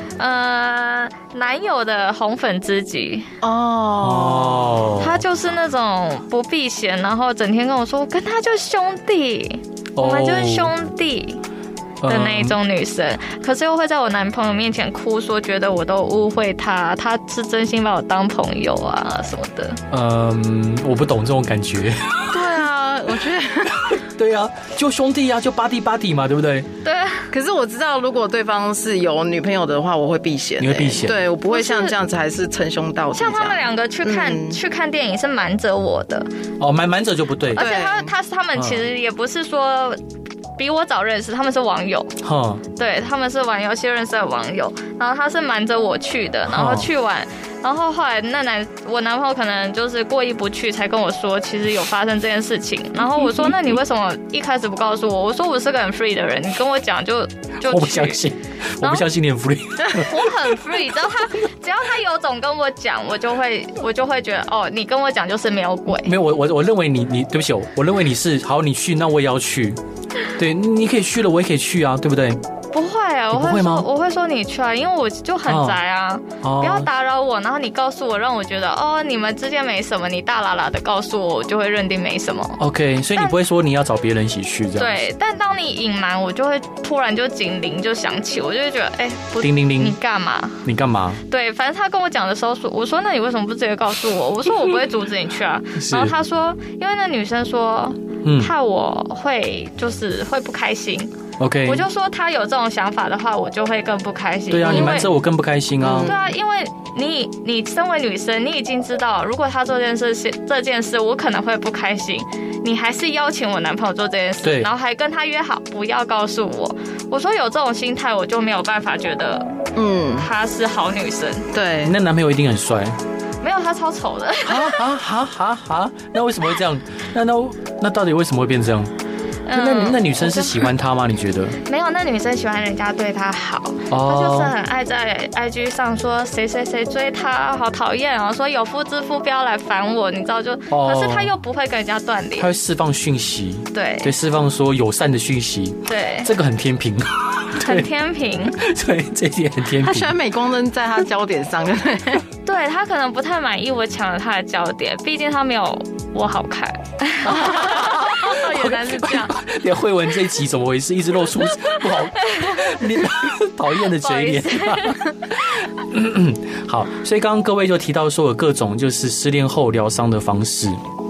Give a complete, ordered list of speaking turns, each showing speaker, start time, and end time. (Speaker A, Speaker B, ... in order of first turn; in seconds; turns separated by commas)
Speaker A: 0.2-3.3, Speaker B: 3.4-4.8, Speaker C: 4.0-5.2, Speaker A: 5.0-11.4, Speaker C: 10.0-10.7, Speaker C: 12.0-12.6, Speaker A: 12.1-19.8, Speaker C: 19.9-22.4, Speaker B: 22.3-23.9, Speaker C: 23.8-26.7, Speaker A: 26.8-27.3, Speaker B: 27.3-34.6, Speaker C: 30.6-31.2, Speaker A: 31.5-31.9, Speaker A: 33.1-36.3, Speaker C: 36.6-37.6, Speaker A: 37.5-40.0, Speaker B: 37.5-38.1, Speaker C: 38.6-38.9, Speaker A: 40.6-42.2, Speaker C: 42.2-42.6, Speaker A: 42.8-58.2, Speaker C: 46.5-46.9, Speaker C: 57.7-60.3, Speaker A: 58.8-59.1, Speaker A: 59.9-66.1, Speaker C: 66.1-69.8, Speaker C: 70.4-72.4, Speaker A: 72.7-82.6, Speaker C: 73.3-73.9, Speaker C: 75.5-75.8, Speaker C: 76.4-76.9, Speaker C: 82.6-85.0, Speaker A: 84.8-90.6, Speaker C: 89.4-90.0, Speaker C: 90.6-91.2, Speaker A: 91.3-101.1, Speaker C: 95.8-96.1, Speaker C: 98.2-98.5, Speaker C: 101.4-101.8, Speaker A: 101.7-105.1, Speaker C: 104.5-106.1, Speaker B: 105.8-106.3, Speaker A: 106.0-119.5, Speaker C: 114.4-114.7, Speaker B: 119.8-120.3, Speaker A: 120.2-121.5, Speaker B: 121.5-122.0, Speaker C: 121.8-123.0, Speaker A: 123.4-124.8, Speaker C: 124.4-128.9, Speaker A: 129.5-130.7, Speaker C: 129.5-131.6, Speaker A: 131.7-142.5, Speaker C: 133.9-134.5, Speaker C: 140.7-141.3, Speaker C: 142.4-147.9, Speaker A: 143.7-144.1, Speaker A: 145.9-146.3, Speaker A: 147.6-148.6, Speaker C: 148.5-150.1, Speaker B: 149.8-152.3, Speaker A: 152.4-159.3, Speaker C: 157.2-170.8, Speaker A: 162.3-163.0, Speaker A: 163.8-165.0